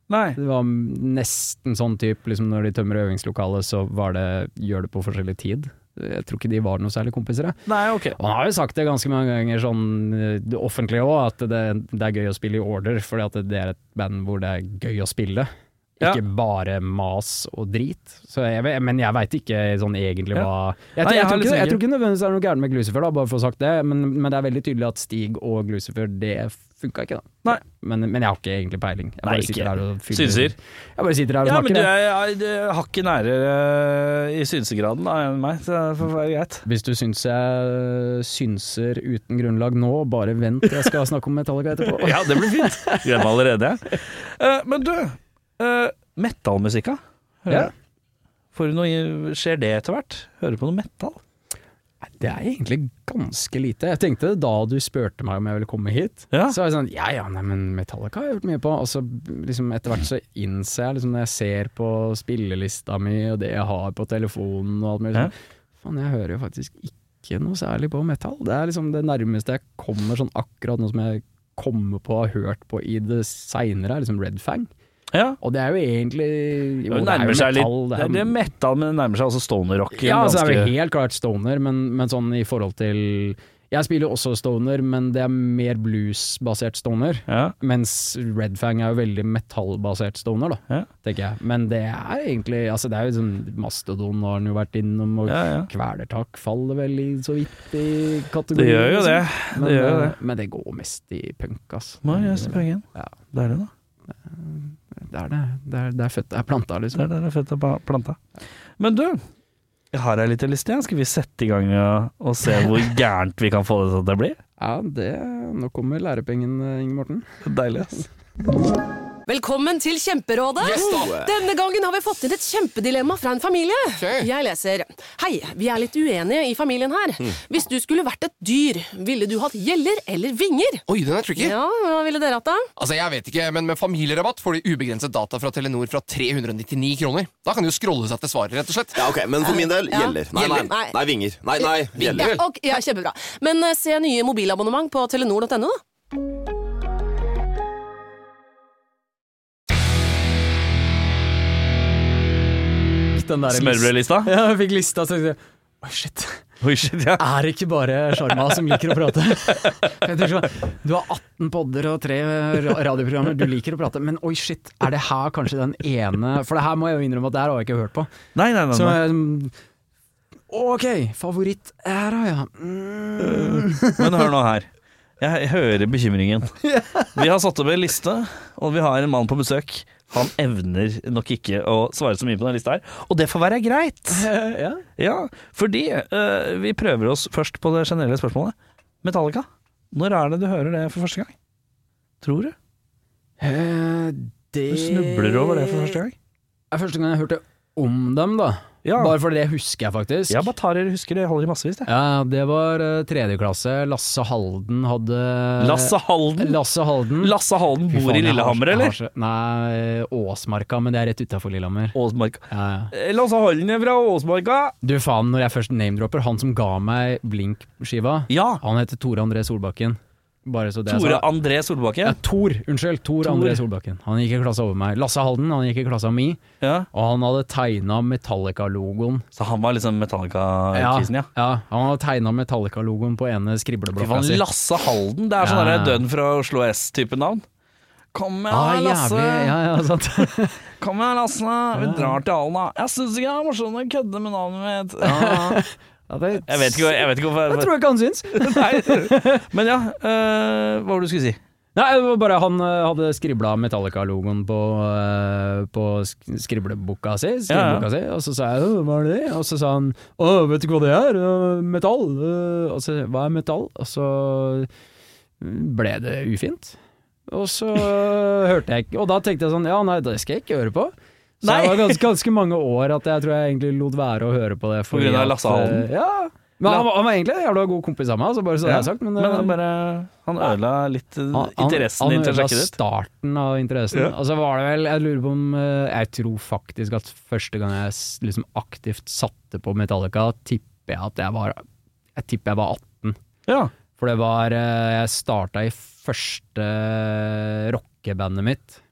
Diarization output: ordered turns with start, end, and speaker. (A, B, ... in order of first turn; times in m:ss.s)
0:00.1-0:00.4 A
0:00.4-0:07.6 B
0:07.7-0:08.2 A
0:08.2-0:31.9 B
0:21.0-0:21.8 A
0:29.2-0:30.6 A
0:31.4-0:36.6 A
0:36.6-0:43.3 B
0:42.0-0:47.7 A
0:48.5-0:51.2 A
0:52.0-1:14.7 B
0:56.3-0:56.6 A
1:15.1-1:15.4 A
1:15.4-1:18.4 B
1:16.9-1:20.7 A
1:19.9-1:43.1 B
1:27.3-1:27.6 A
1:35.3-1:35.7 A
1:38.6-1:40.1 A
1:42.0-1:43.7 A
1:44.2-1:47.1 B
1:47.0-1:48.2 A
1:48.8-1:49.2 A
1:49.9-1:54.4 A
1:54.6-1:57.3 B
1:57.4-1:58.1 A
1:59.3-2:10.8 C
2:00.6-2:01.3 D
2:00.8-2:01.3 E
2:04.0-2:04.3 D
2:10.9-2:11.6 D
2:11.4-2:12.7 C
2:12.8-2:19.1 D
2:19.0-2:22.4 E
2:19.4-2:21.0 C
2:21.6-2:25.8 C
2:22.0-2:22.4 D
2:33.1-2:36.4 B
2:33.5-2:34.3 A
2:36.6-2:37.2 A
2:37.2-2:48.1 B
2:48.4-2:49.0 A
2:48.7-2:49.5 B
2:50.5-2:54.3 B
2:53.2-2:54.7 A
2:55.2-2:56.6 A
2:56.6-2:57.2 B
2:57.1-3:04.3 A
3:04.1-3:04.8 B
3:05.0-3:11.3 A
3:12.2-3:12.6 A
3:13.4-3:16.0 B
3:14.7-3:16.1 A
3:16.7-3:20.5 B
3:18.8-3:19.2 A
3:20.3-3:21.9 A
3:21.9-3:27.4 B
3:25.6-3:26.6 A
3:27.2-3:28.9 A
3:27.9-3:32.0 B
3:31.9-3:34.8 A
3:32.5-3:32.9 B
3:34.8-3:41.3 B
3:38.3-3:38.6 A
3:40.9-3:42.2 A
3:42.0-3:46.4 B
3:43.2-3:43.6 A
3:46.6-3:46.9 A
3:46.9-3:49.3 B
3:49.4-3:51.3 A
3:50.7-3:54.4 B
3:54.0-3:57.4 A
3:55.4-3:56.0 B
3:58.1-3:59.6 A
3:58.5-4:00.6 B
4:00.8-4:05.6 A
4:01.7-4:02.2 B
4:05.0-4:09.4 B
4:06.4-4:07.7 A
4:08.3-4:11.4 A
4:11.8-4:24.7 B
4:17.5-4:17.9 A
4:25.4-4:26.8 B
4:27.3-4:39.6 B
4:31.4-4:32.1 A
4:34.9-4:35.9 A
4:38.6-4:42.8 A
4:41.3-4:51.6 B
4:52.1-4:53.2 B
4:53.5-4:53.7 A
4:54.0-4:58.8 B